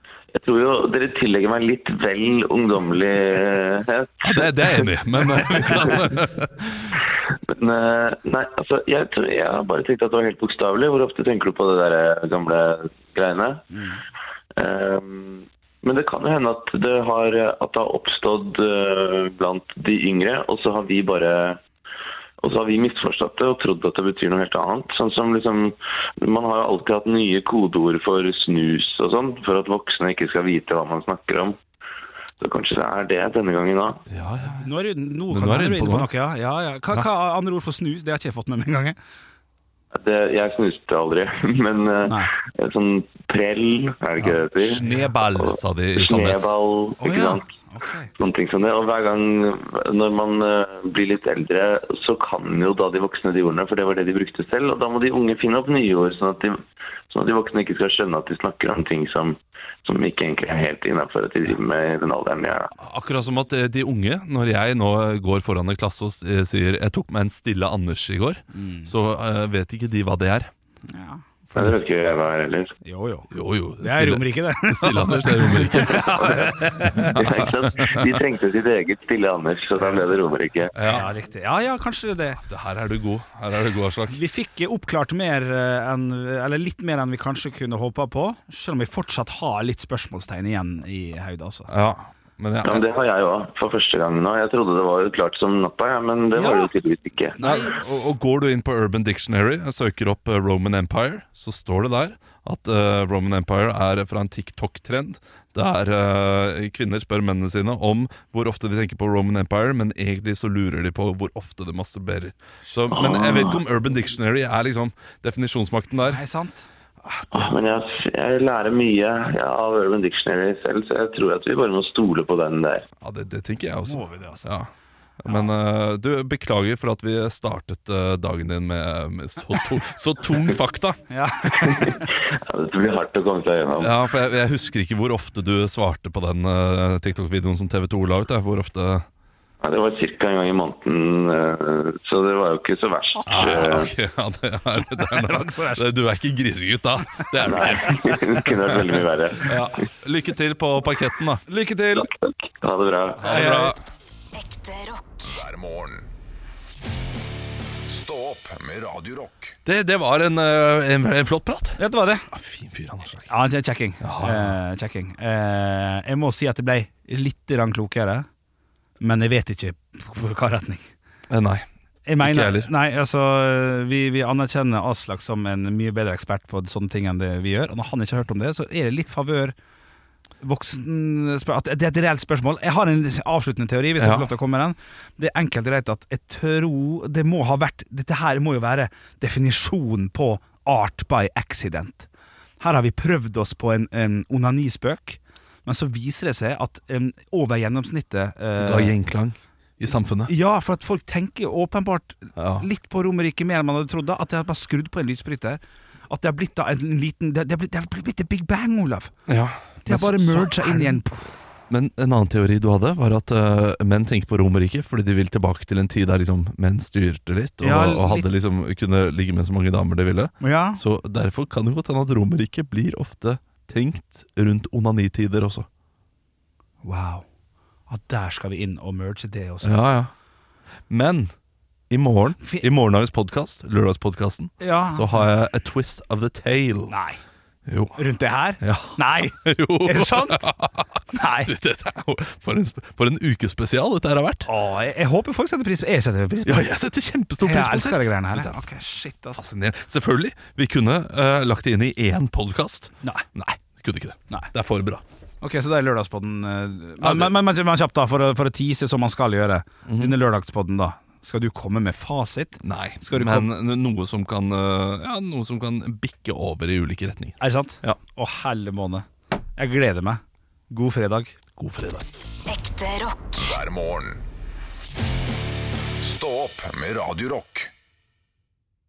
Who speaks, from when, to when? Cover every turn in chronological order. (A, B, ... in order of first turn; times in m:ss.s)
0:00.3-0:04.5 A
0:04.2-0:07.0 B
0:05.4-0:06.0 A
0:07.5-0:13.6 A
0:13.7-0:14.0 C
0:14.6-0:21.6 A
0:22.4-0:31.6 A
0:32.4-0:34.0 A
0:34.1-0:34.7 B
0:34.6-0:39.0 C
0:35.3-0:36.1 B
0:39.9-0:47.5 A
0:42.0-0:42.3 C
0:44.2-0:46.5 B
0:47.0-0:48.1 C
0:48.2-1:02.7 A
1:02.8-1:10.5 B
1:08.5-1:08.9 C
1:10.9-1:11.2 C
1:11.5-1:12.7 A
1:12.8-1:17.3 C
1:13.3-1:18.2 B
1:17.1-1:20.7 A
1:20.7-1:21.1 B
1:20.8-1:22.4 C
1:22.4-1:24.2 B
1:24.1-1:31.7 C
1:31.7-1:32.8 B
1:32.6-1:37.4 A
1:36.3-1:36.7 C
1:37.4-1:37.8 C
1:37.4-1:56.2 B
1:52.9-1:53.6 A
1:56.0-1:56.6 C
1:57.0-1:57.6 B
1:57.3-2:02.8 A
2:03.0-2:04.7 B
2:03.8-2:04.5 C
2:05.2-2:05.5 C
2:05.2-2:11.0 B
2:11.1-2:12.0 C
2:11.6-2:14.0 A
2:13.8-2:19.0 B
2:19.6-2:23.9 A
2:23.3-2:28.8 B
2:25.0-2:25.8 C
2:27.4-2:29.5 A
2:29.4-2:31.4 B
2:29.5-2:29.7 C
2:31.5-2:32.1 C
2:31.9-2:33.3 A
2:33.2-2:33.8 B
2:33.2-2:33.8 C
2:34.4-2:36.1 D
2:37.8-2:39.6 D
2:39.6-2:41.8 B
2:41.8-2:42.2 C
2:42.3-2:43.3 B
2:43.3-2:48.2 C
2:44.0-2:44.6 B
2:49.0-2:50.8 C
2:51.3-2:51.6 B
2:52.1-2:59.5 C
2:52.2-2:52.7 B
3:00.4-3:12.1 C
3:04.0-3:04.3 B
3:12.6-3:18.9 C
3:18.6-3:20.3 B
3:20.3-3:29.1 C
3:22.4-3:22.6 B
3:29.3-3:31.0 B
3:29.8-3:31.3 C
3:31.7-3:45.7 B
3:37.6-3:38.3 C
3:40.4-3:40.8 C
3:46.8-3:47.2 C
3:47.9-3:49.8 C
3:49.6-3:50.1 B
3:50.9-3:51.3 B
3:51.9-3:56.9 B
3:54.6-3:55.2 C
3:56.9-3:57.2 C
3:57.6-3:58.0 B
3:58.0-4:00.5 C
3:58.6-4:04.5 B
4:01.1-4:01.5 C
4:04.4-4:06.7 C
4:06.4-4:08.6 B
4:07.4-4:09.4 C
4:09.3-4:15.0 B
4:15.4-4:23.5 C
4:17.0-4:17.4 B
4:19.8-4:20.2 B
4:22.6-4:28.0 B
4:27.4-4:29.0 C
4:29.6-4:31.4 C
4:31.6-4:32.1 B
4:32.5-4:34.2 D
4:36.0-4:37.7 D